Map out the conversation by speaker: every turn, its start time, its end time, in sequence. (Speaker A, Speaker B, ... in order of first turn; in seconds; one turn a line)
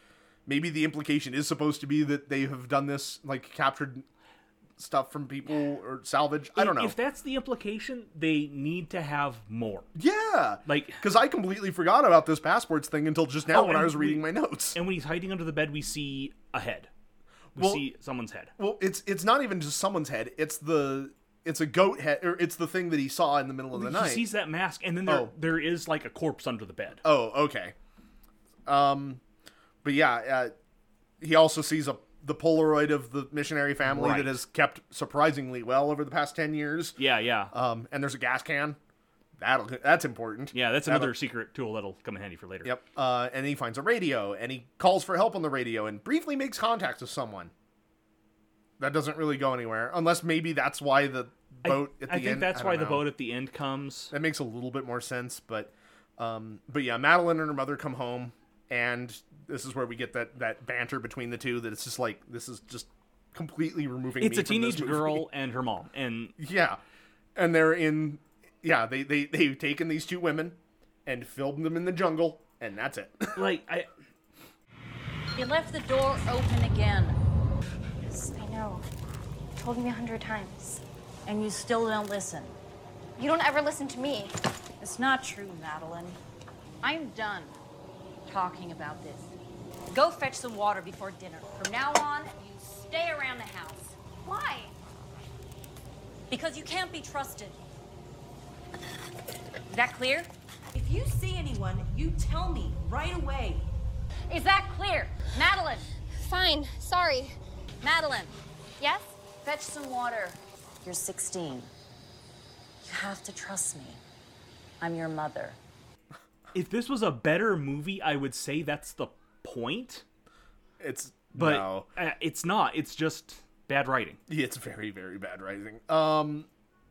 Speaker A: 0.5-4.0
Speaker A: 4.8-7.0
Speaker B: 6.6-9.9
Speaker A: 9.9-14.8
Speaker B: 10.7-11.0
Speaker B: 13.5-16.9
Speaker B: 17.6-18.5
Speaker A: 17.6-17.8
Speaker A: 18.6-24.3
Speaker B: 23.7-27.0
Speaker A: 25.1-25.3
Speaker A: 27.0-27.8
Speaker A: 28.7-29.2
Speaker A: 29.8-30.5
Speaker A: 31.2-37.0
Speaker B: 33.8-34.3
Speaker B: 37.0-37.5
Speaker A: 37.5-38.8
Speaker A: 39.4-41.1
Speaker B: 40.5-42.7
Speaker A: 42.6-47.5
Speaker A: 48.8-53.1
Speaker B: 51.6-54.1
Speaker A: 54.1-65.2
Speaker B: 64.2-66.3
Speaker A: 66.4-66.8
Speaker A: 67.3-73.5
Speaker B: 73.4-73.9
Speaker C: 75.4-77.2
Speaker D: 78.0-78.8
Speaker D: 79.6-80.8
Speaker C: 81.3-82.6
Speaker D: 83.2-84.3
Speaker C: 84.8-86.2
Speaker C: 86.8-87.6
Speaker C: 88.3-89.3
Speaker C: 89.9-94.7
Speaker C: 96.3-97.6
Speaker C: 99.7-100.3
Speaker E: 100.7-103.7
Speaker C: 104.3-105.9
Speaker D: 106.1-107.4
Speaker C: 107.8-108.3
Speaker D: 108.8-109.1
Speaker C: 109.4-111.7
Speaker C: 112.8-114.0
Speaker C: 114.8-115.6
Speaker B: 116.5-120.0
Speaker A: 120.8-121.9
Speaker B: 121.3-124.2
Speaker A: 124.3-126.5